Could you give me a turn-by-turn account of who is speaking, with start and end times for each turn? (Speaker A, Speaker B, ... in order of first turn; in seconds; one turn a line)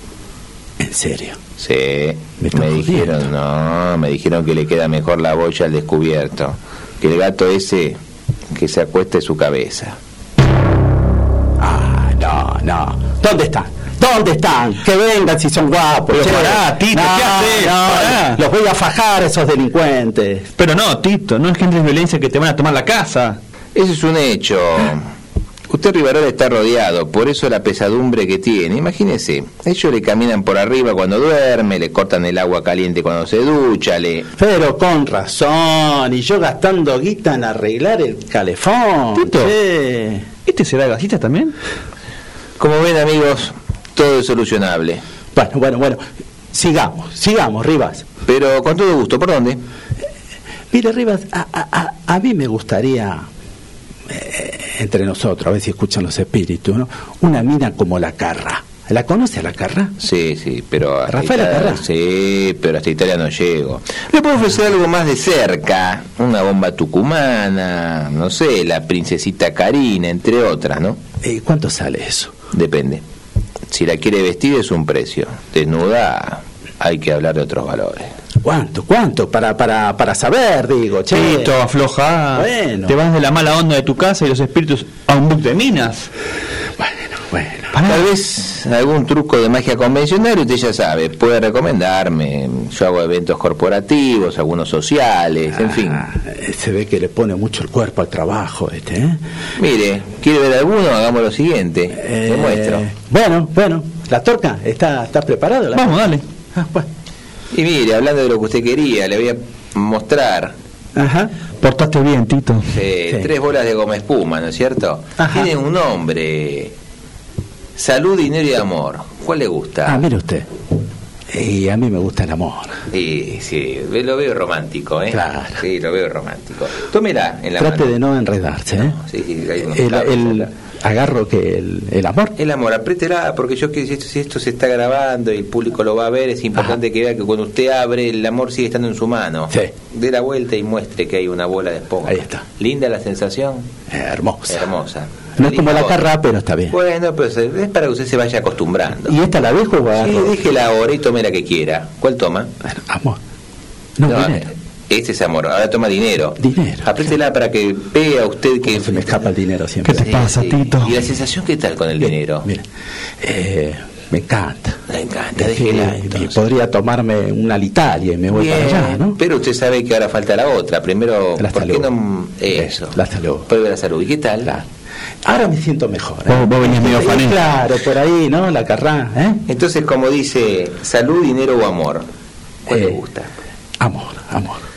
Speaker A: 0.8-1.4
Speaker B: 1.6-8.0
Speaker A: 2.4-3.1
Speaker B: 8.5-10.0
Speaker A: 11.6-20.5
Speaker C: 16.1-18.4
Speaker C: 20.6-23.4
Speaker B: 23.7-25.1
Speaker B: 25.7-34.3
Speaker A: 34.4-40.3
Speaker C: 39.1-39.5
Speaker C: 40.5-41.5
Speaker B: 42.6-45.0
Speaker A: 45.3-46.0
Speaker A: 46.5-48.0
Speaker B: 48.2-49.6
Speaker A: 50.7-53.2
Speaker A: 54.1-59.9
Speaker B: 60.0-71.0
Speaker A: 61.1-61.8
Speaker A: 71.2-72.3
Speaker B: 72.5-73.0
Speaker B: 73.7-78.1
Speaker A: 78.4-81.5
Speaker C: 81.1-86.1
Speaker A: 82.3-82.9
Speaker A: 86.8-87.7
Speaker C: 87.7-88.0
Speaker B: 87.8-96.0
Speaker A: 95.6-99.2
Speaker B: 99.5-102.8
Speaker A: 101.9-106.9
Speaker C: 105.7-106.2
Speaker B: 107.5-110.5
Speaker A: 111.0-111.3
Speaker C: 111.6-112.7
Speaker B: 112.7-116.7
Speaker A: 115.2-115.5
Speaker B: 117.8-120.0
Speaker A: 119.8-120.5
Speaker A: 121.3-122.8
Speaker B: 122.9-127.9
Speaker A: 125.1-125.6
Speaker A: 127.6-129.0
Speaker B: 128.8-130.5
Speaker A: 129.6-132.3
Speaker B: 132.3-143.7
Speaker A: 142.1-142.4
Speaker A: 143.9-144.7
Speaker B: 144.5-146.1
Speaker A: 145.4-146.7
Speaker B: 146.7-149.1
Speaker A: 149.1-150.3
Speaker B: 149.9-152.5
Speaker A: 152.6-153.2
Speaker A: 154.0-154.5
Speaker B: 154.1-159.3
Speaker A: 156.4-156.9
Speaker A: 158.6-160.1
Speaker C: 159.8-160.9
Speaker B: 159.9-162.5
Speaker A: 163.2-164.8
Speaker B: 164.9-166.4
Speaker A: 165.3-169.2
Speaker B: 168.3-174.5
Speaker A: 171.4-171.9
Speaker A: 172.5-173.5
Speaker A: 175.2-179.4
Speaker C: 176.3-177.4
Speaker B: 179.5-182.1
Speaker B: 182.7-183.3
Speaker A: 183.8-184.6